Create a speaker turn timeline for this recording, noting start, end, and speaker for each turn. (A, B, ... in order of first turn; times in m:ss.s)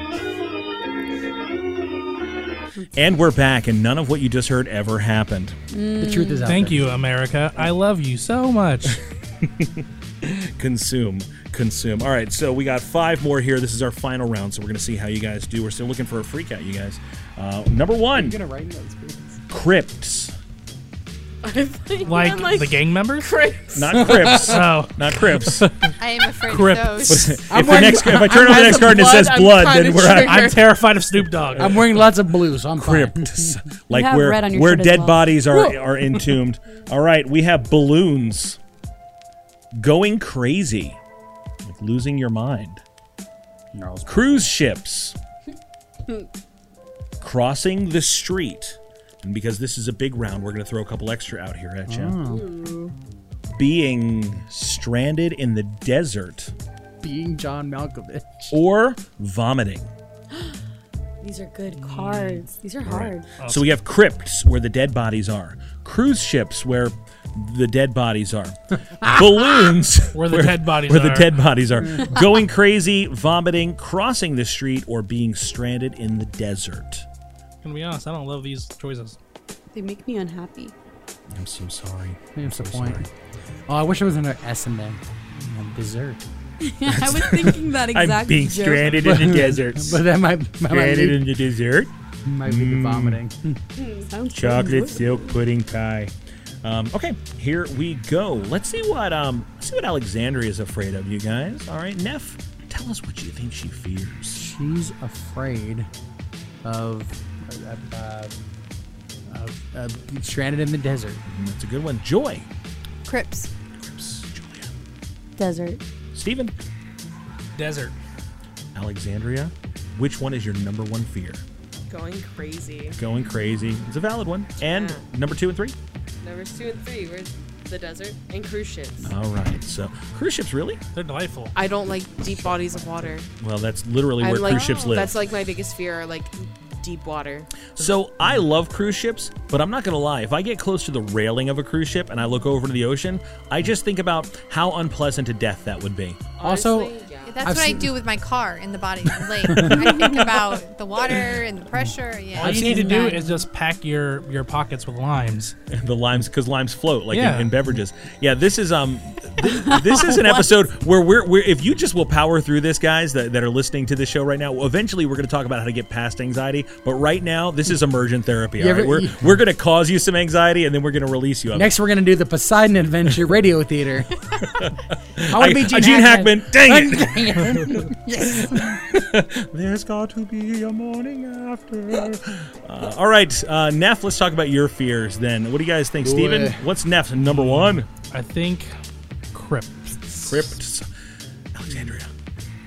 0:02.8-0:03.1 A
0:02.9-0:05.6 B
0:05.7-0:06.6 A
0:06.0-0:06.9 C
0:06.4-0:09.0 D
0:08.9-0:18.4 B
0:18.1-0:19.4 C
0:19.5-0:20.3 B
0:21.4-0:23.9 E
0:22.0-0:23.4 D
0:23.7-0:25.6 B
0:23.9-0:24.6 C
0:24.3-0:27.3 D
0:26.0-0:27.4 F
0:27.1-0:30.4 B
0:27.5-0:29.1 C
0:27.9-0:30.6 E
0:30.2-0:31.7 D
0:31.6-0:33.6 C
0:31.6-0:32.2 B
0:32.8-0:38.6 B
0:33.9-0:35.4 A
0:39.8-0:41.0 B
0:41.6-0:42.8 B
0:43.7-0:44.4 C
0:44.0-0:45.2 B
0:47.2-0:52.2 B
0:51.9-0:52.5 C
0:52.3-0:52.9 E
0:53.6-0:56.5 B
0:57.0-0:58.6 C
0:58.5-0:59.9 B
1:01.2-1:03.3 A
1:01.8-1:02.5 D
1:02.8-1:17.0 B
1:03.4-1:03.7 D
1:10.1-1:11.3 D
1:17.6-1:19.2 D
1:19.7-1:20.7 A
1:21.3-1:23.1 B
1:22.3-1:23.1 C
1:23.7-1:26.2 C
1:26.6-1:28.9 A
1:26.9-1:30.0 B
1:28.8-1:31.2 C
1:30.7-1:31.9 B
1:32.2-1:33.6 C
1:32.4-1:33.2 B
1:34.0-1:35.4 A
1:34.3-1:44.4 B
1:44.3-1:45.9 C
1:46.6-1:48.3 C
1:49.3-1:51.2 C
1:51.3-1:52.5 B
1:53.0-1:53.5 F
1:53.8-1:54.7 B
1:55.4-1:55.8 A
1:56.1-1:56.5 B
1:57.5-1:57.9 D
1:58.7-2:01.4 B
2:01.9-2:03.0 E
2:03.0-2:05.7 B
2:04.6-2:05.0 E
2:06.2-2:09.1 E
2:09.0-2:10.8 B
2:10.9-2:11.6 D
2:11.6-2:13.2 E
2:13.4-2:15.2 B
2:14.2-2:17.5 E
2:14.4-2:15.0 F
2:17.7-2:26.3 B
2:26.4-2:27.4 E
2:26.4-2:27.9 C
2:27.2-2:33.2 F
2:29.4-2:30.2 C
2:32.3-2:35.5 D
2:32.4-2:32.9 B
2:32.9-2:33.4 A
2:35.7-2:51.7 B
2:37.1-2:37.5 D
2:39.4-2:40.6 A
2:48.6-2:49.4 C
2:51.5-2:54.2 C
2:54.4-2:57.6 B
2:55.3-2:58.7 C
2:58.2-3:07.9 B
3:06.0-3:06.6 C
3:07.2-3:08.7 D
3:09.3-3:10.5 D
3:10.2-3:10.9 B
3:11.5-3:12.1 B